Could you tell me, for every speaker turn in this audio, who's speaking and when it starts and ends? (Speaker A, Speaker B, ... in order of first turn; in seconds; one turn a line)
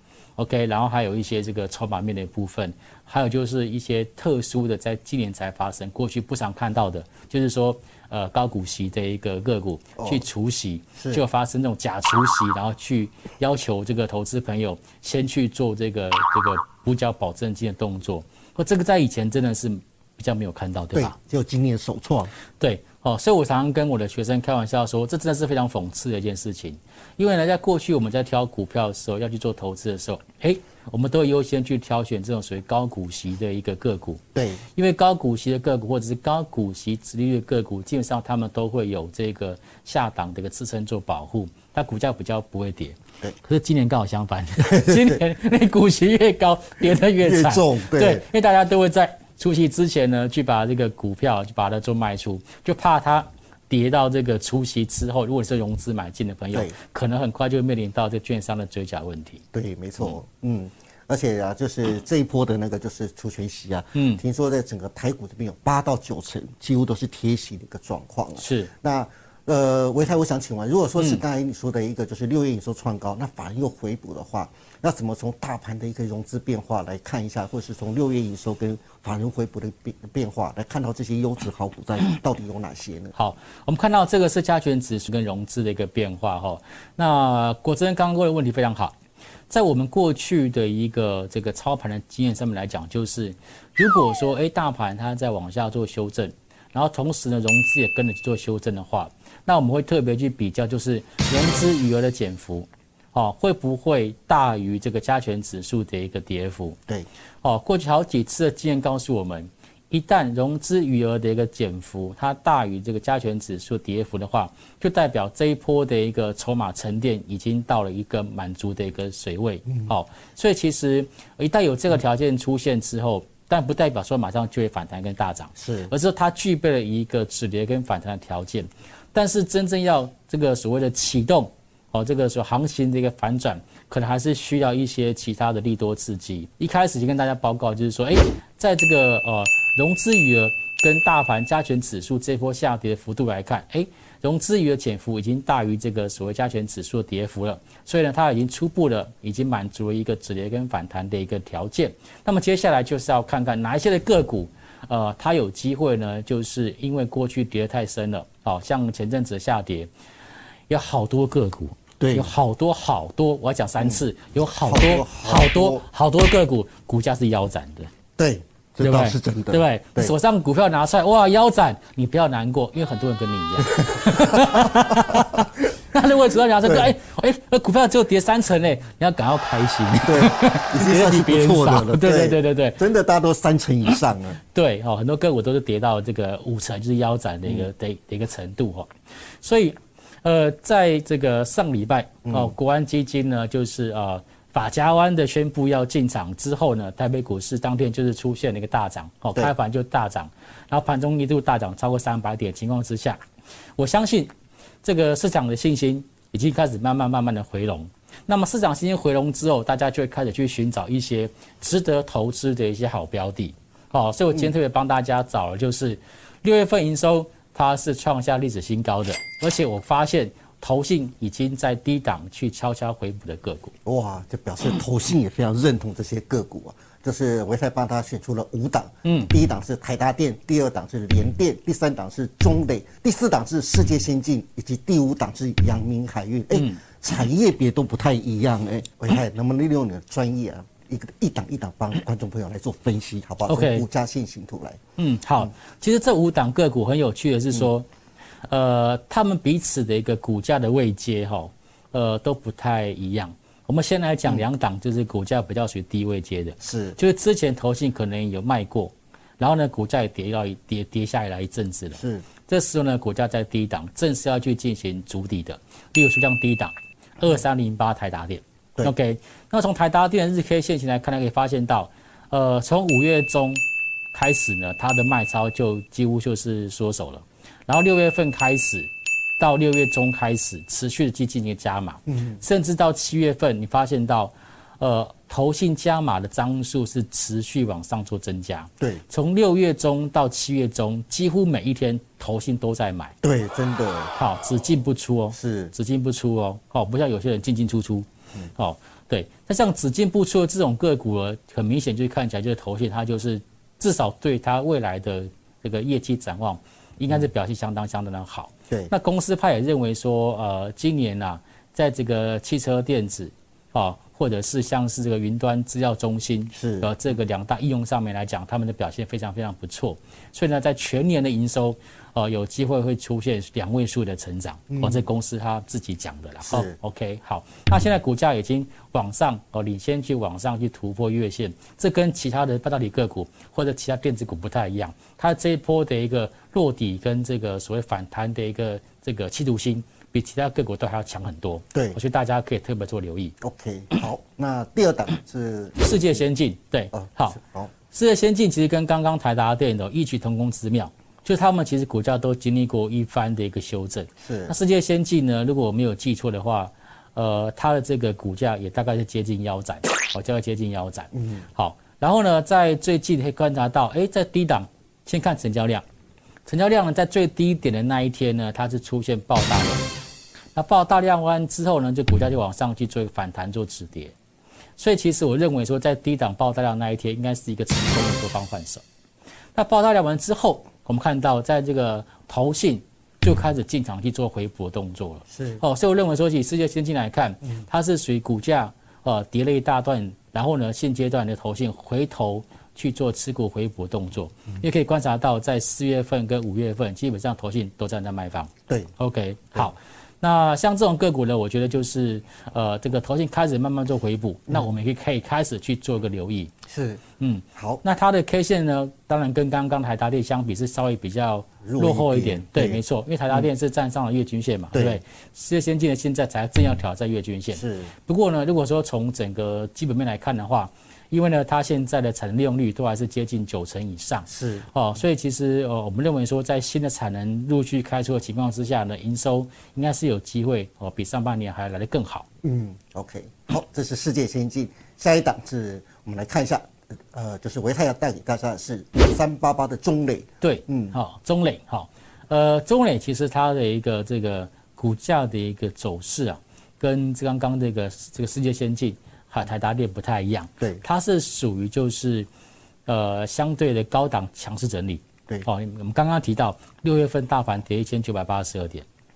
Speaker A: 0.4-21.1
Speaker B: 10.0-10.2
Speaker B: 11.0-11.2
Speaker B: 20.9-22.3
Speaker A: 22.6-34.2
Speaker B: 34.4-34.6
Speaker A: 34.7-59.4
Speaker B: 44.7-45.2
Speaker B: 47.2-48.2
Speaker B: 59.5-83.1
Speaker A: 63.9-64.2
Speaker A: 68.4-68.7
Speaker A: 83.2-89.0
Speaker A: 89.5-106.8
Speaker A: 107.4-159.9
Speaker B: 125.6-125.9
Speaker A: 160.7-167.9
Speaker B: 162.0-162.3
Speaker B: 164.5-165.8
Speaker B: 168.2-170.1
Speaker A: 168.8-182.8
Speaker B: 173.8-175.4
Speaker B: 176.6-176.9
Speaker B: 180.0-184.4
Speaker A: 184.5-188.9
Speaker A: 189.4-203.2
Speaker B: 192.3-192.5
Speaker A: 203.8-204.3
Speaker A: 204.8-223.7
Speaker B: 223.8-244.8
Speaker A: 229.1-229.3
Speaker A: 236.5-236.8
Speaker A: 243.5-243.8
Speaker A: 245.0-247.8
Speaker A: 248.5-273.6
Speaker B: 256.6-257.0
Speaker B: 261.9-262.3
Speaker A: 274.1-293.1
Speaker B: 282.1-282.4
Speaker B: 293.2-294.1
Speaker A: 294.1-343.3
Speaker B: 295.3-295.7
Speaker B: 316.5-316.9
Speaker B: 324.7-325.1
Speaker B: 326.4-326.8
Speaker B: 343.4-346.2
Speaker A: 345.8-347.4
Speaker B: 346.9-347.7
Speaker A: 347.9-365.8
Speaker B: 354.2-354.5
Speaker B: 361.1-361.4
Speaker A: 366.4-369.8
Speaker A: 370.5-374.1
Speaker A: 374.8-378.8
Speaker A: 379.6-406.5
Speaker B: 385.3-385.6
Speaker B: 406.7-407.0
Speaker A: 407.2-432.3
Speaker B: 407.6-407.8
Speaker B: 411.6-413.5
Speaker B: 414.7-415.0
Speaker B: 417.5-417.9
Speaker B: 424.3-424.7
Speaker B: 432.4-440.9
Speaker A: 440.4-452.3
Speaker A: 452.9-458.8